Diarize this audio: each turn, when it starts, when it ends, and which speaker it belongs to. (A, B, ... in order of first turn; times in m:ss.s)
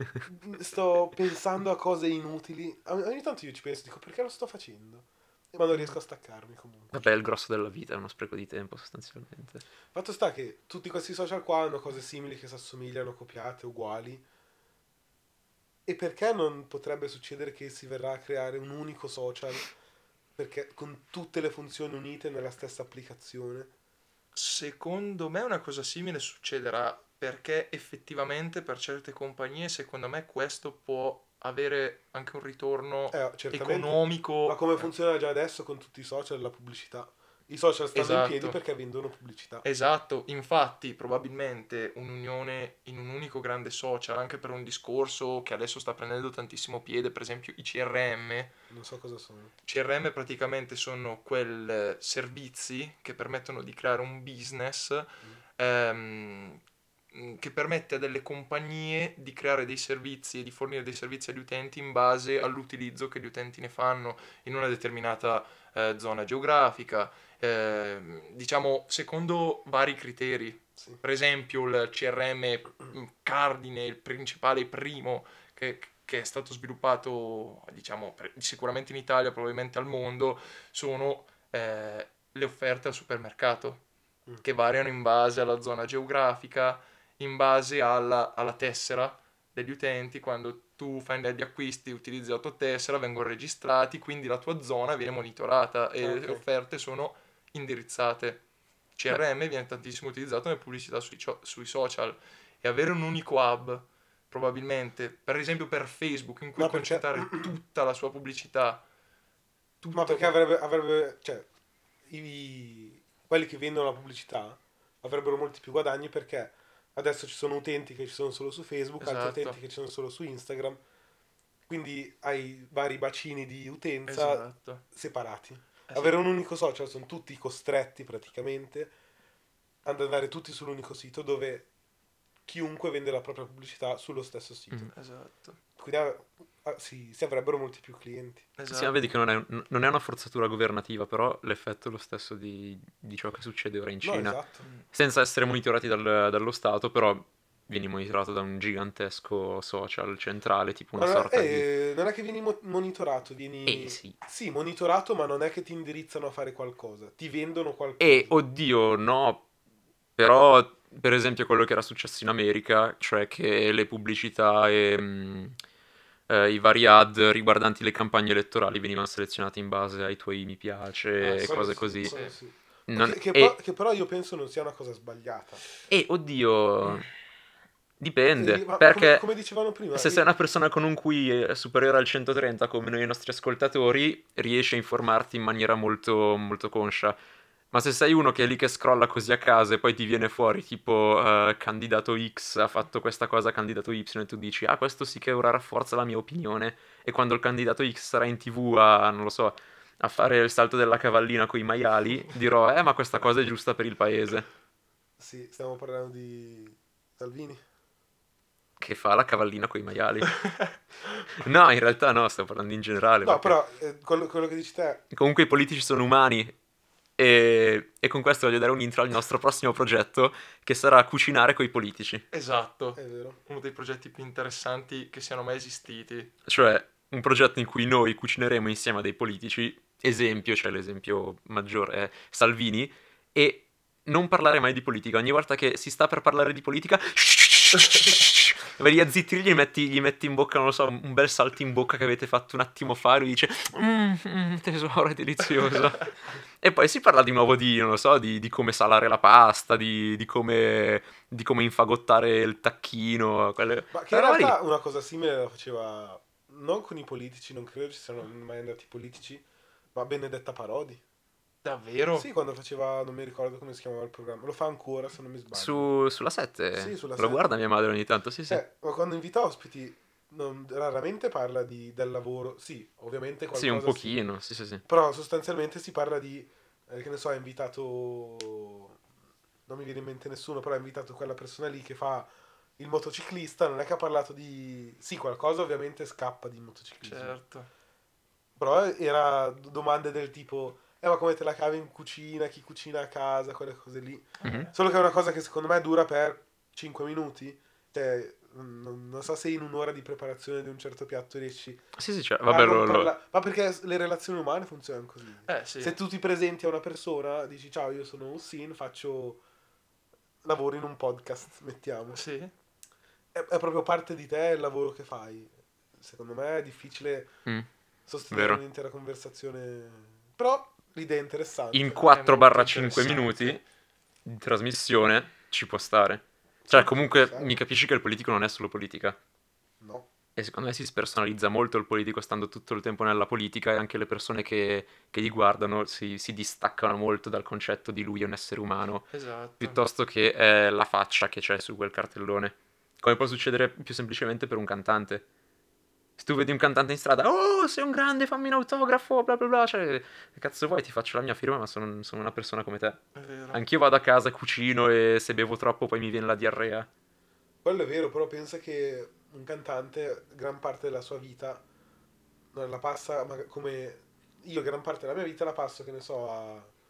0:00.2-0:06.9 A
0:06.9-0:09.6 B
0:09.9-0:14.2 A
0:15.9-0:19.7 A
0:20.4-0:23.7 A
0:24.4-0:34.9 C
0:33.1-0:39.6 A
0:37.9-0:38.6 C
0:39.6-0:48.5 C
0:48.7-0:49.5 A
0:49.7-0:56.6 C
0:57.1-1:23.8 C
1:24.4-1:38.4 C
1:36.0-1:36.4 A
1:39.0-1:48.8 C
1:46.6-1:47.5 A
1:49.8-1:50.3 C
1:49.9-1:51.5 A
1:52.1-2:00.8 A
1:59.0-1:59.6 C
2:01.7-2:08.9 A
2:04.1-2:04.8 C
2:05.9-2:06.2 C
2:09.8-2:11.7 A
2:12.5-2:14.9 A
2:14.9-2:15.6 C
2:15.8-2:18.5 A
2:18.6-2:19.0 C
2:18.7-2:24.4 B
2:24.0-2:24.6 A
2:24.9-2:31.7 B
2:31.0-2:38.4 A
2:33.7-2:34.2 B
2:38.0-2:39.4 B
2:40.2-2:45.6 B
2:46.3-2:52.1 B
2:51.2-2:52.3 C
2:51.4-2:55.6 A
2:52.9-2:53.6 B
2:55.9-2:57.1 B
2:58.0-2:59.3 B
2:58.4-3:00.2 A
2:59.9-3:07.2 B
3:07.7-3:24.5 B
3:25.2-3:27.6 A
3:28.8-3:30.4 B
3:31.3-3:33.6 B
3:33.2-3:35.0 A
3:35.1-3:36.6 B
3:37.2-3:42.2 B
3:42.3-3:46.3 C
3:43.0-3:43.4 A
3:46.5-4:06.1 B
4:06.6-4:14.6 B
4:13.9-4:21.0 A
4:21.6-4:22.3 C
4:22.2-4:25.9 A
4:25.5-4:28.6 B
4:26.8-4:27.5 A
4:28.5-4:34.2 A
4:33.5-4:34.8 B
4:34.9-4:39.0 A
4:39.7-4:47.4 A
4:47.0-4:47.7 C
4:48.6-5:01.8 A
4:54.4-4:54.7 C
4:54.4-4:54.7 B
5:02.0-5:03.1 B
5:02.4-5:09.4 A
5:05.5-5:06.0 C
5:10.4-5:12.2 A
5:12.1-5:12.5 C
5:13.3-5:17.4 A
5:18.1-5:22.0 A
5:18.3-5:18.6 B
5:21.7-5:23.6 B
5:22.1-5:23.6 C
5:24.2-5:29.2 B
5:26.6-5:27.6 A
5:29.8-5:30.1 A
5:30.4-5:45.2 B
5:39.1-5:39.8 C
5:46.2-5:56.9 B
5:53.2-5:53.6 C
5:57.6-6:01.6 A
6:02.5-6:06.7 A